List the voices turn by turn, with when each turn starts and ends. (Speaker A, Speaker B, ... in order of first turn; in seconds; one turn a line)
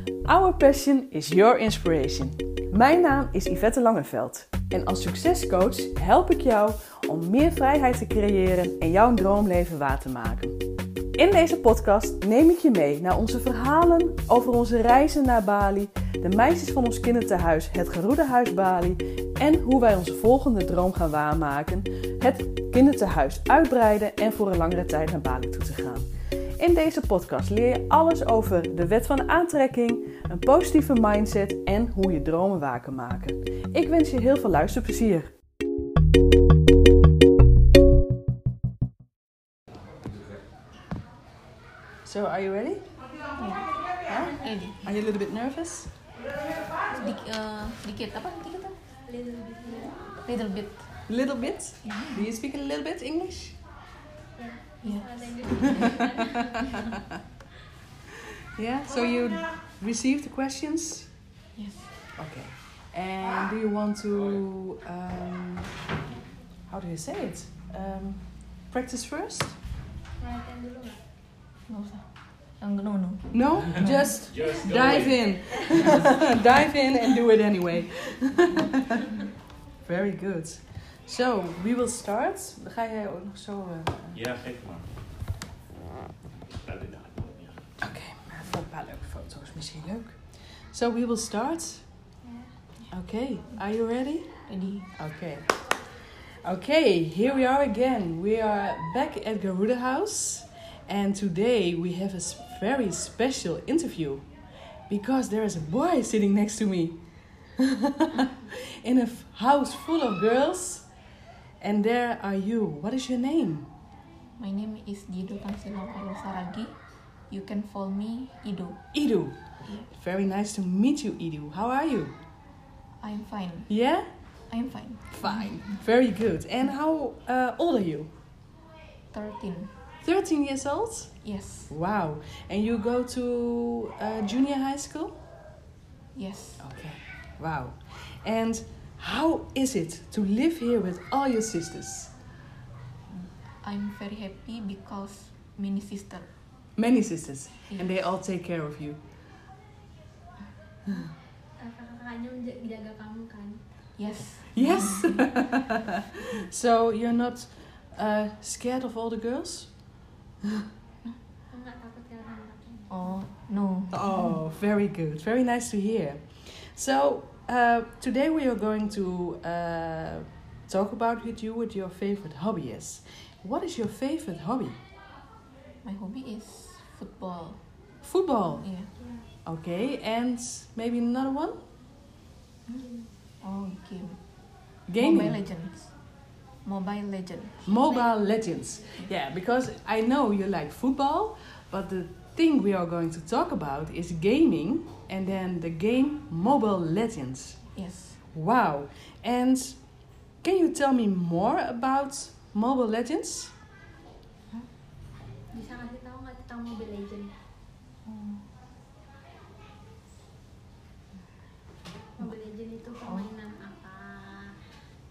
Speaker A: 0.3-10.6
Speaker A: 11.2-26.1
Speaker A: 26.6-35.3
Speaker A: 42.0-42.8
Speaker B: 43.4-43.7
Speaker A: 44.1-45.9
Speaker B: 44.3-44.8
Speaker B: 46.9-48.8
Speaker C: 49.1-50.0
Speaker B: 50.2-50.9
Speaker A: 51.1-53.6
Speaker B: 51.9-52.3
Speaker C: 54.4-57.0
Speaker B: 54.8-55.9
Speaker A: 55.9-56.5
Speaker A: 58.6-61.1
Speaker B: 61.6-61.9
Speaker A: 62.2-65.7
Speaker A: 66.7-69.6
Speaker C: 70.2-71.0
Speaker B: 71.7-72.0
Speaker B: 72.6-74.1
Speaker A: 73.3-79.2
Speaker D: 74.5-74.9
Speaker A: 79.8-84.3
Speaker D: 84.3-84.9
Speaker D: 86.6-87.5
Speaker A: 87.8-90.2
Speaker A: 90.7-91.8
Speaker C: 92.3-92.5
Speaker A: 92.9-94.4
Speaker B: 94.5-94.9
Speaker A: 94.9-95.5
Speaker A: 96.4-104.3
Speaker A: 104.9-107.0
Speaker A: 107.6-110.9
Speaker A: 111.6-113.7
Speaker B: 114.4-116.8
Speaker B: 117.3-118.8
Speaker A: 118.9-122.2
Speaker B: 119.6-119.9
Speaker B: 123.0-123.7
Speaker A: 123.7-124.1
Speaker B: 124.5-125.5
Speaker A: 125.1-128.1
Speaker B: 129.1-129.7
Speaker A: 130.0-131.2
Speaker B: 131.2-131.7
Speaker A: 131.7-135.2
Speaker B: 136.2-136.7
Speaker A: 136.6-142.1
Speaker B: 143.6-146.3
Speaker A: 146.8-149.0
Speaker C: 151.6-153.6
Speaker B: 154.0-155.2
Speaker A: 154.5-159.7
Speaker C: 161.5-163.1
Speaker B: 162.9-164.4
Speaker A: 163.9-174.8
Speaker B: 175.8-177.6
Speaker A: 178.0-178.7
Speaker B: 178.6-178.9
Speaker C: 179.0-179.3
Speaker A: 179.4-181.6
Speaker C: 182.7-183.1
Speaker B: 183.4-184.2
Speaker A: 184.9-185.4
Speaker B: 185.0-185.9
Speaker B: 186.7-187.8
Speaker A: 187.7-197.6
Speaker B: 197.8-198.2
Speaker A: 198.3-199.8
Speaker A: 200.4-203.5
Speaker C: 205.5-207.3
Speaker B: 208.1-208.4
Speaker C: 212.2-214.6
Speaker B: 213.0-213.3